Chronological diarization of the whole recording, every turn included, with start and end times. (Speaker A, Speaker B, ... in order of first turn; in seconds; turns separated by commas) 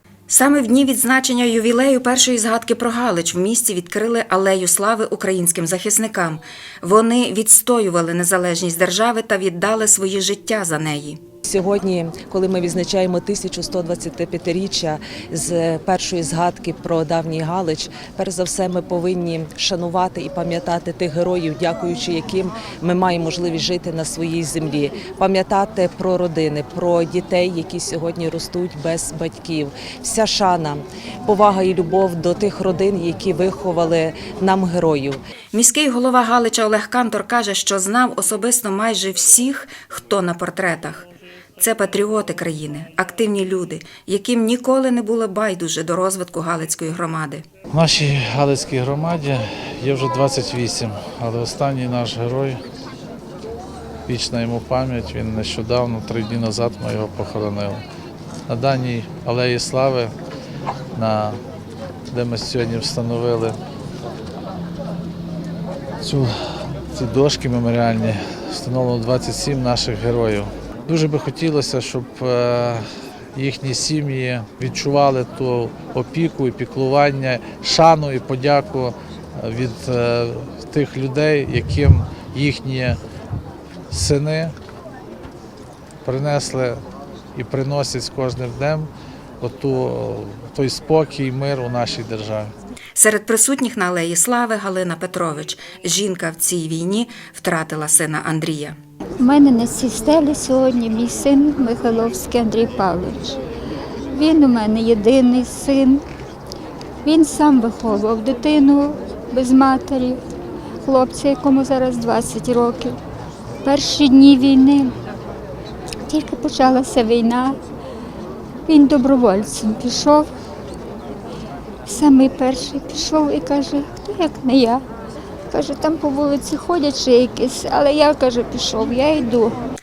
Speaker A: 0.3-11.2, Speaker B: 11.4-35.2, Speaker A: 35.5-47.5, Speaker C: 47.7-52.6, Speaker C: 54.1-57.8, Speaker C: 58.5-60.1, Speaker C: 61.0-61.4, Speaker C: 62.1-63.6, Speaker C: 66.0-66.3, Speaker C: 66.9-72.8, Speaker C: 73.3-83.0, Speaker C: 83.9-84.5, Speaker C: 86.0-86.8, Speaker C: 87.3-88.9, Speaker C: 89.4-92.5, Speaker A: 93.0-98.8, Speaker D: 99.2-103.4, Speaker D: 104.1-106.0, Speaker D: 107.0-110.2, Speaker D: 110.8-113.0, Speaker D: 113.6-114.9, Speaker D: 116.1-117.6, Speaker D: 118.7-120.3, Speaker D: 121.9-124.8, Speaker D: 125.5-129.6